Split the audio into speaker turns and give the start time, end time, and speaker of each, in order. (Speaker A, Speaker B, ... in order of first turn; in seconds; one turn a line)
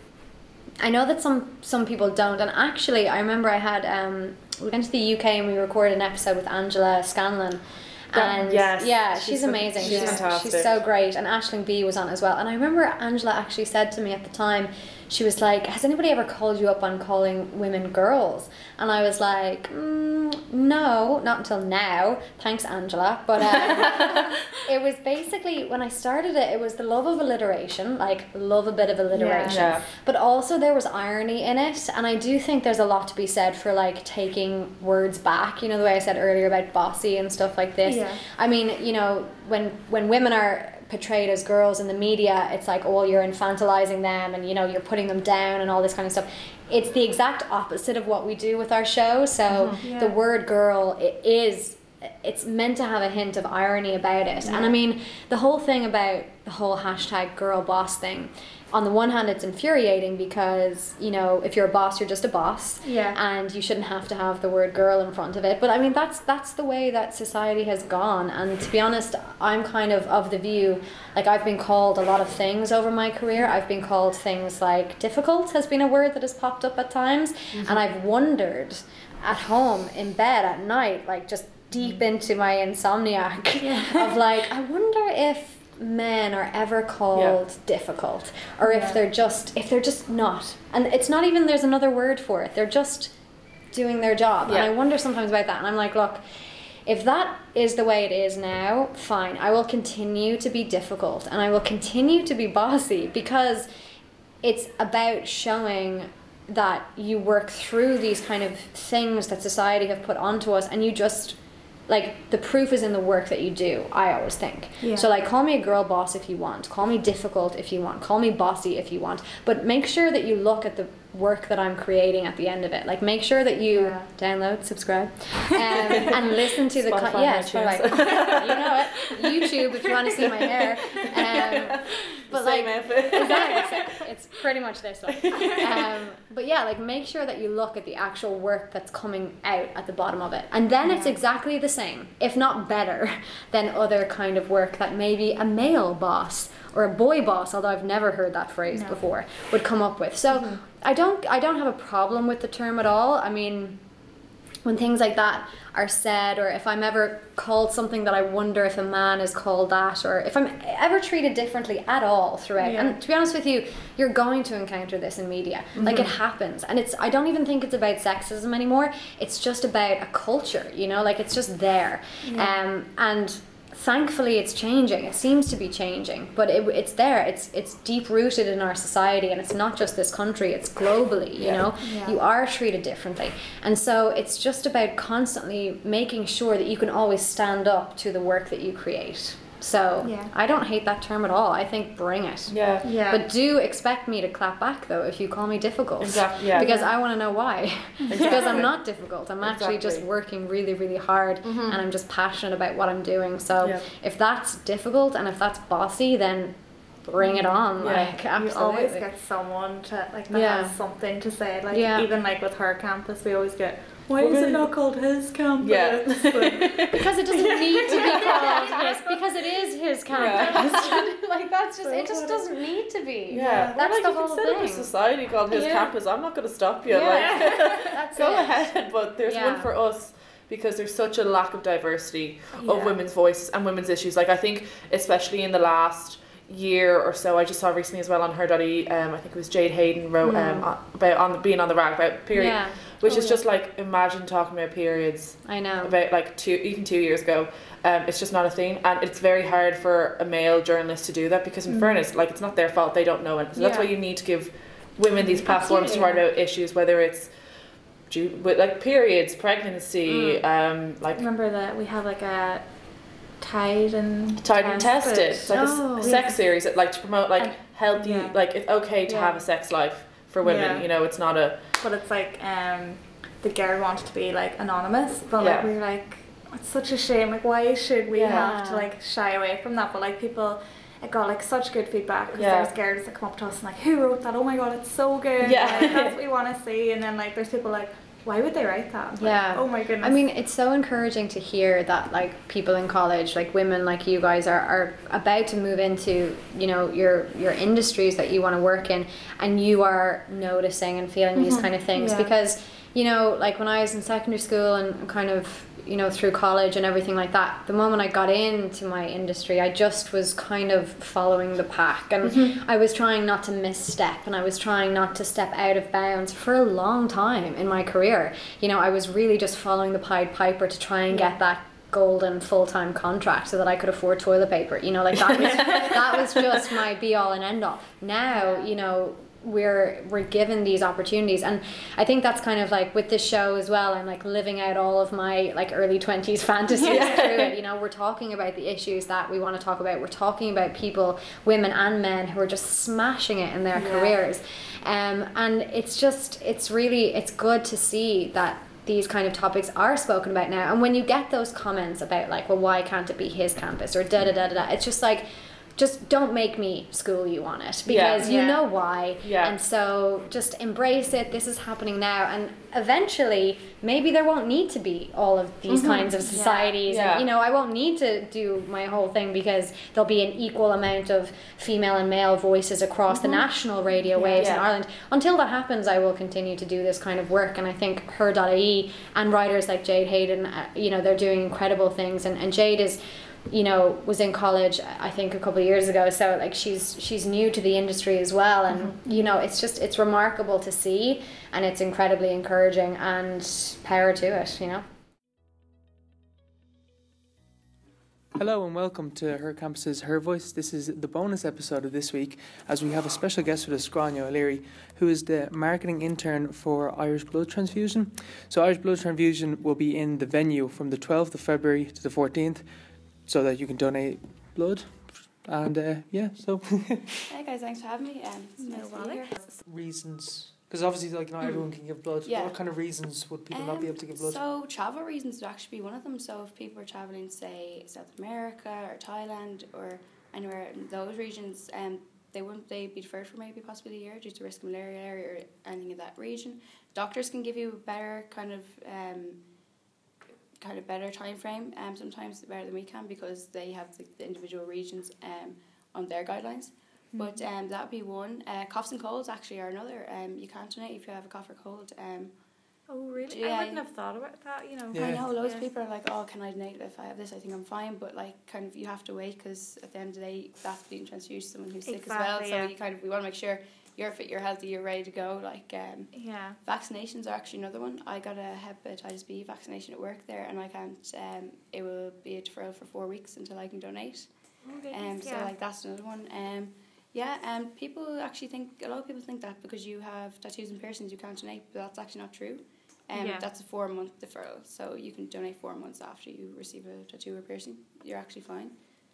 Speaker A: 0.8-93.1
Speaker B: 8.1-10.8
Speaker C: 29.1-29.6
Speaker B: 29.5-29.9
Speaker C: 37.8-38.2
Speaker C: 49.6-50.2
Speaker C: 62.8-63.2
Speaker B: 77.5-77.8
Speaker C: 83.6-84.1
Speaker B: 87.1-87.4
Speaker C: 88.7-89.0
Speaker A: 93.7-96.2
Speaker B: 94.5-94.7
Speaker A: 96.9-103.7
Speaker A: 104.4-111.4
Speaker A: 111.9-153.8
Speaker C: 114.8-115.1
Speaker C: 123.7-124.1
Speaker B: 126.8-129.0
Speaker B: 130.1-130.5
Speaker B: 131.2-131.8
Speaker B: 132.3-133.5
Speaker B: 135.1-135.8
Speaker C: 140.8-141.1
Speaker C: 148.7-149.0
Speaker A: 154.6-209.1
Speaker C: 162.6-163.0
Speaker C: 172.2-172.6
Speaker C: 181.8-182.2
Speaker C: 190.0-190.3
Speaker B: 192.5-192.9
Speaker C: 192.8-193.3
Speaker B: 196.0-196.7
Speaker C: 196.5-196.9
Speaker C: 198.1-198.6
Speaker B: 198.1-198.7
Speaker B: 199.4-200.0
Speaker B: 201.4-201.8
Speaker B: 203.6-203.9
Speaker C: 207.2-207.6
Speaker B: 207.8-208.2
Speaker C: 208.2-218.7
Speaker A: 210.3-210.8
Speaker A: 211.7-212.1
Speaker B: 214.2-214.7
Speaker B: 215.6-216.9
Speaker A: 216.9-224.9
Speaker B: 218.0-218.6
Speaker B: 220.2-220.9
Speaker C: 220.2-220.6
Speaker C: 221.9-222.4
Speaker C: 223.3-223.8
Speaker B: 223.3-261.2
Speaker C: 225.5-225.9
Speaker C: 226.9-228.0
Speaker A: 227.1-229.7
Speaker C: 232.5-232.9
Speaker A: 240.3-240.7
Speaker A: 242.3-243.4
Speaker A: 245.4-246.0
Speaker C: 251.7-252.1
Speaker C: 253.6-253.9
Speaker C: 255.2-256.2
Speaker C: 260.1-260.4
Speaker C: 261.1-266.4
Speaker B: 264.4-271.7
Speaker C: 267.4-268.4
Speaker C: 269.1-269.4
Speaker C: 270.4-270.9
Speaker C: 271.8-290.2
Speaker B: 275.4-275.7
Speaker B: 278.2-278.8
Speaker B: 282.3-282.7
Speaker B: 285.5-286.1
Speaker A: 289.1-394.9
Speaker C: 301.4-302.3
Speaker B: 325.5-325.9
Speaker B: 336.9-337.5
Speaker B: 357.9-358.3
Speaker C: 358.2-358.6
Speaker B: 359.2-359.5
Speaker B: 365.7-366.1
Speaker C: 366.2-366.8
Speaker B: 366.9-367.2
Speaker C: 374.1-374.5
Speaker B: 374.4-374.6
Speaker D: 398.4-417.3
Speaker E: 417.3-419.4
Speaker C: 418.6-419.6
Speaker D: 419.6-424.4
Speaker B: 421.4-421.7
Speaker E: 422.2-422.6
Speaker E: 423.5-439.4
Speaker E: 440.6-452.3
Speaker C: 447.1-447.5
Speaker C: 452.9-455.7
Speaker E: 453.2-453.8
Speaker D: 454.9-455.3
Speaker E: 454.9-474.3
Speaker C: 461.9-462.7
Speaker C: 466.1-466.6
Speaker C: 474.7-475.5
Speaker E: 474.9-488.8
Speaker C: 483.1-483.5